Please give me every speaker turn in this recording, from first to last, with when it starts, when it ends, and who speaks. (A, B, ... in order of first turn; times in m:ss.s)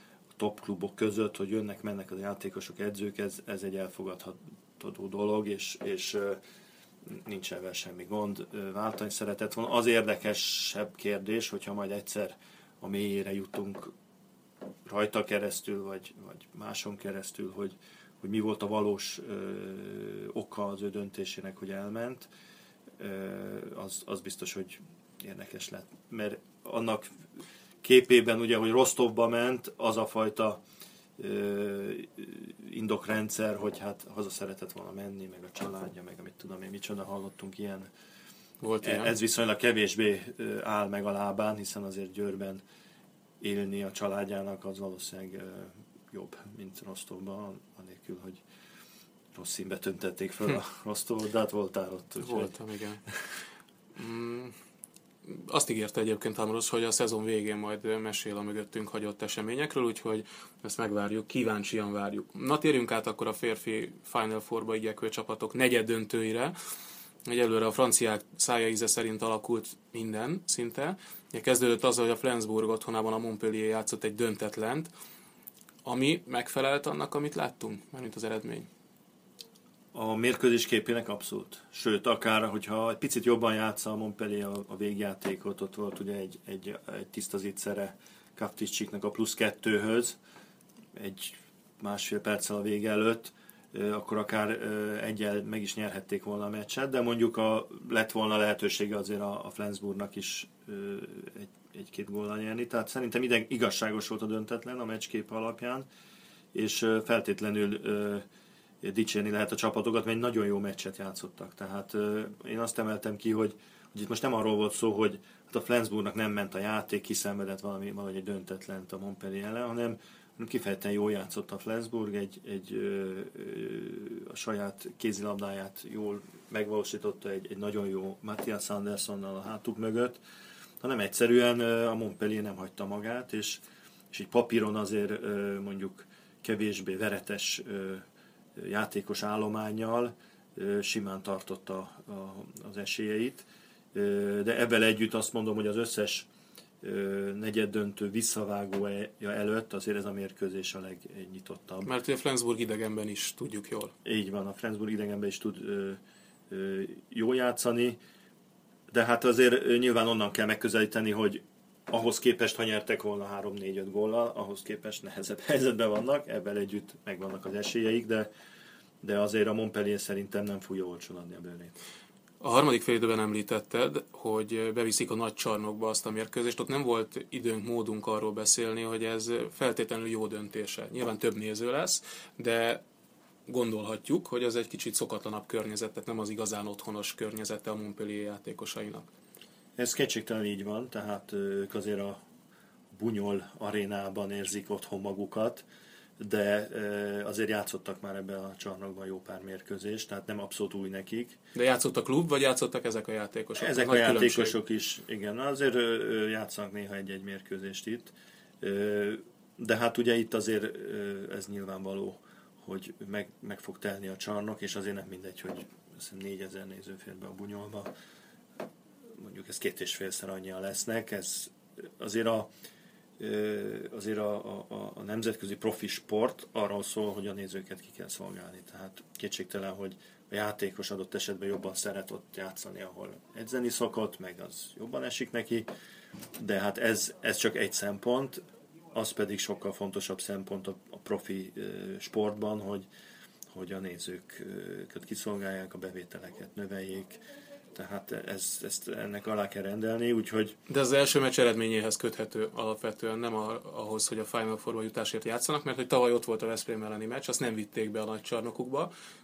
0:00.4-0:06.4 A
0:07.1-0:13.9 A
0:14.9-0:22.3 A
0:23.0-0:27.1 A
0:27.8-0:30.6 A
0:31.2-0:37.9 A
0:38.6-0:39.1 B
0:38.8-0:42.6 A
0:43.4-0:48.4 A
0:49.4-0:52.5 A
0:52.2-0:53.0 B
0:54.0-0:54.5 B
0:55.2-1:06.5 B
1:07.2-1:14.9 B
1:15.8-1:18.7 B
1:19.9-1:30.2 A
1:30.9-1:45.9 A
1:46.5-1:48.2 A
1:48.8-2:10.2 A
2:10.8-2:18.0 A
2:18.6-2:26.3 A
2:26.8-2:31.9 A
2:31.8-2:33.9 B
2:34.0-2:38.0 A
2:38.9-2:48.3 A
2:49.0-2:51.7 A
2:52.4-3:02.8 B
3:03.5-3:09.1 B
3:09.8-3:12.2 A
3:12.9-3:15.6 A
3:16.2-3:21.4 A
3:21.5-3:24.6 B
3:23.6-3:37.9 A
3:39.2-3:42.5 A
3:43.2-3:55.7 A
3:56.4-4:02.9 A
4:03.5-4:07.2 A
4:07.7-4:10.6 A
4:10.7-4:18.9 B